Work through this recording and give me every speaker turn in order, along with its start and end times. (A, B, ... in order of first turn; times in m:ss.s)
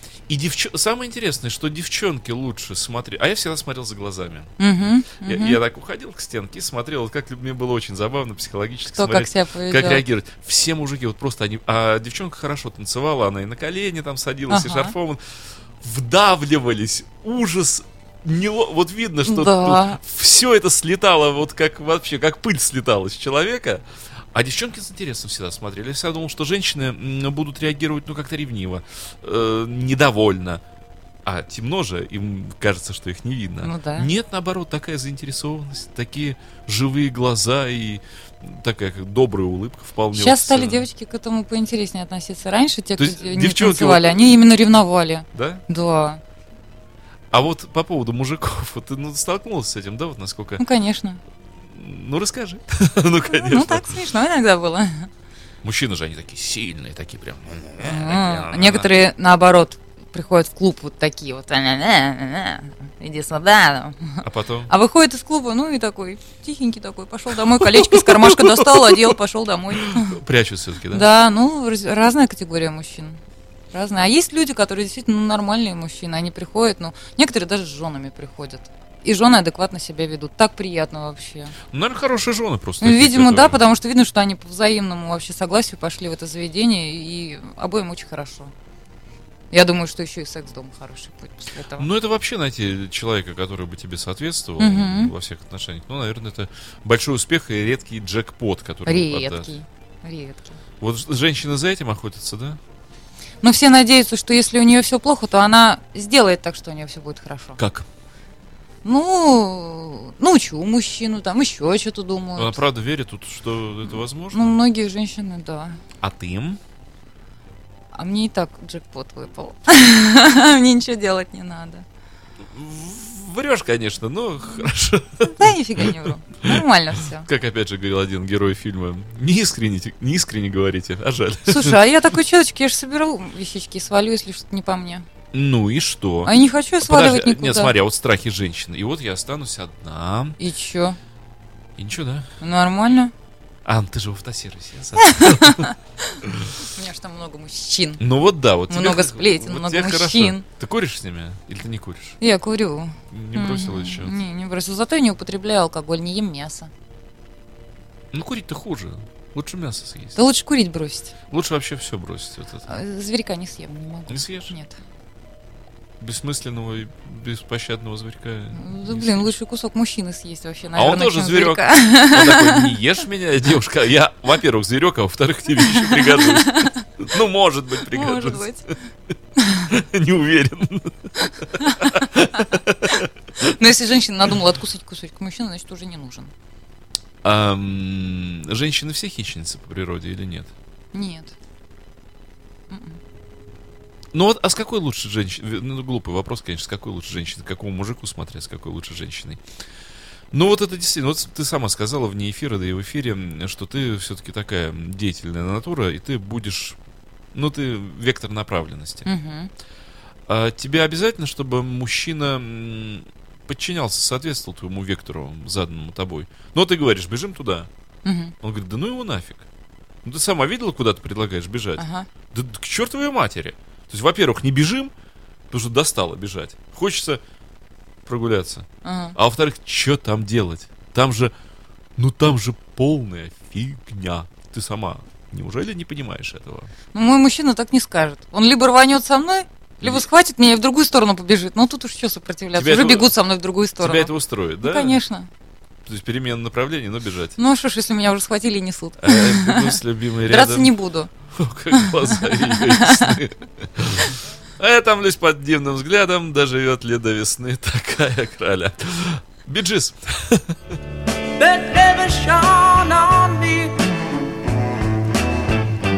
0:00.3-0:04.5 A
0:04.6-0:05.6 B
0:05.1-0:15.2 A
0:08.9-0:10.0 B
0:14.5-0:14.9 B
0:15.8-0:30.6 A
0:19.2-0:20.0 B
0:31.2-0:40.9 A
0:33.6-0:34.1 B
0:40.1-0:46.2 B
0:43.0-0:44.2 A
0:45.3-0:45.6 A
0:47.3-0:50.6 A
0:50.6-0:51.2 B
0:51.6-0:53.9 A
0:53.2-0:55.1 B
0:55.6-0:58.9 A
0:57.8-1:10.2 B
1:04.2-1:04.7 A
1:07.5-1:09.2 A
1:09.7-1:11.1 A
1:10.9-1:13.2 B
1:13.7-1:21.6 B
1:21.7-1:23.6 A
1:22.8-1:28.5 B
1:29.5-1:31.9 B
1:31.8-1:39.5 A
1:34.6-1:35.1 B
1:38.8-1:40.6 B
1:40.8-1:42.6 A
1:43.4-1:47.6 B
1:47.6-1:47.9 A
1:48.8-1:52.6 B
1:52.4-1:54.6 A
1:53.8-1:55.8 B
1:56.0-1:56.6 A
1:57.9-2:01.8 B
2:02.5-2:11.8 A
2:05.2-2:07.3 B
2:11.4-2:15.0 B
2:15.3-2:20.4 A
2:16.2-2:17.7 B
2:20.4-2:21.0 B
2:21.8-2:22.3 A
2:22.4-2:23.1 B
2:23.6-2:25.7 A
2:25.0-2:28.0 B
2:26.2-2:26.5 A
2:28.0-2:32.2 A
2:28.7-2:30.4 B
2:32.2-2:36.7 B
2:33.1-2:34.2 A
2:38.1-2:40.2 A
2:40.2-2:41.1 B
2:41.3-2:42.7 A
2:42.7-2:44.8 B
2:44.1-2:44.5 A
2:46.0-2:49.3 A
2:48.5-2:52.7 B
2:50.7-2:58.5 A
2:55.6-2:56.9 B
2:57.9-2:58.7 B
2:59.4-2:59.7 B
2:59.6-3:03.4 A
3:01.6-3:06.3 B
3:07.2-3:10.5 A
3:10.9-3:11.3 B
3:12.7-3:13.0 B
3:14.1-3:19.4 A
3:20.3-3:26.8 A
3:27.3-3:29.1 A
3:29.0-3:29.5 B
3:30.3-3:37.7 A
3:38.0-3:38.3 B
3:38.4-3:39.5 A
3:40.0-3:44.9 A
3:41.8-3:42.1 B
3:45.5-3:47.2 A
3:48.0-3:51.3 A
3:48.8-3:49.2 B
3:52.0-3:56.7 A
3:56.9-4:05.3 B
4:02.5-4:03.1 A
4:03.8-4:05.0 A
4:05.8-4:07.4 A
4:07.4-4:11.1 B
4:09.0-4:10.7 A
4:11.3-4:20.6 A
4:11.8-4:13.2 B
4:21.4-4:23.8 C